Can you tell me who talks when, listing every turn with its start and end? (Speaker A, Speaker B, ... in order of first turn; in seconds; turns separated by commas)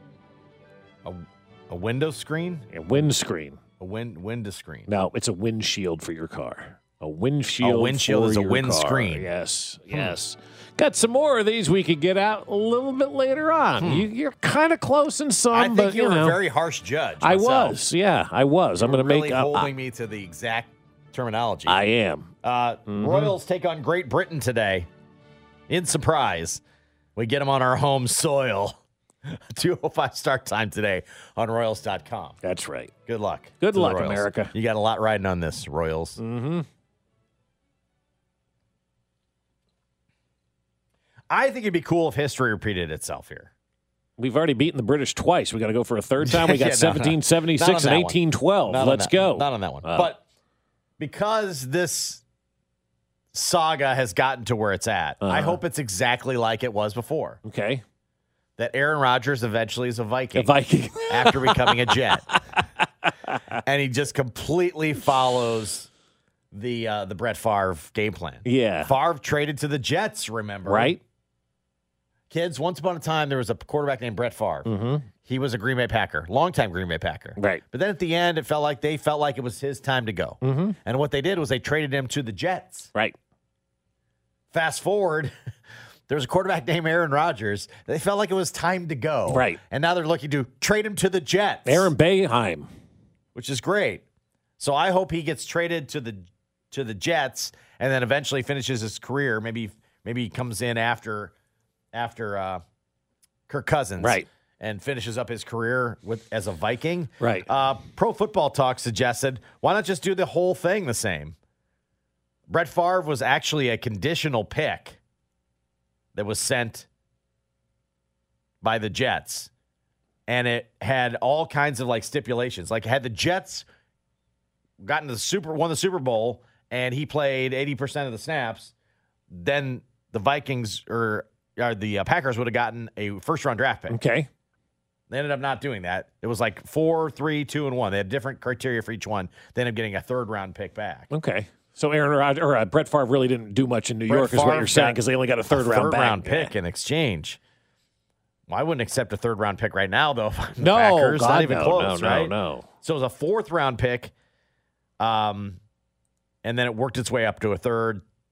Speaker A: 1.0-2.7, Speaker B: 2.7-3.6, Speaker A: 3.8-4.9, Speaker B: 4.9-16.4, Speaker A: 7.6-9.3, Speaker A: 13.8-14.1, Speaker A: 15.5-17.8, Speaker B: 17.2-19.7, Speaker A: 18.8-21.8, Speaker B: 21.6-22.3, Speaker A: 22.4-24.9, Speaker B: 22.9-23.3, Speaker A: 25.7-26.6, Speaker A: 27.1-32.4, Speaker B: 32.4-32.9, Speaker A: 33.1-36.2, Speaker B: 33.6-34.5, Speaker B: 36.2-36.6, Speaker A: 41.3-43.5, Speaker B: 44.2-50.1, Speaker A: 46.2-50.2, Speaker A: 51.0-52.2, Speaker A: 53.3-57.4, Speaker B: 55.2-55.6, Speaker B: 57.4-57.8, Speaker A: 58.6-62.3, Speaker B: 60.3-63.6, Speaker A: 63.5-65.9, Speaker A: 66.5-71.0, Speaker B: 68.4-68.9, Speaker B: 70.7-71.0, Speaker A: 72.3-74.7, Speaker B: 74.6-75.1, Speaker A: 75.2-82.9, Speaker B: 77.4-77.6, Speaker B: 80.4-80.8, Speaker A: 84.5-85.3, Speaker A: 86.1-91.9, Speaker B: 89.3-89.6, Speaker B: 91.7-92.7, Speaker A: 93.3-94.0, Speaker A: 94.6-101.3, Speaker A: 101.9-102.6, Speaker A: 103.5-111.3, Speaker B: 104.0-104.3, Speaker B: 107.2-107.5, Speaker A: 112.5-115.0, Speaker A: 116.1-116.9, Speaker A: 118.6-119.5, Speaker A: 120.3-123.7, Speaker A: 124.8-128.7, Speaker A: 129.3-134.0, Speaker B: 133.9-134.3, Speaker A: 135.1-141.1, Speaker B: 141.1-146.5, Speaker A: 144.1-147.4, Speaker A: 148.5-154.1, Speaker B: 150.6-152.7, Speaker A: 155.0-155.6, Speaker A: 156.4-158.0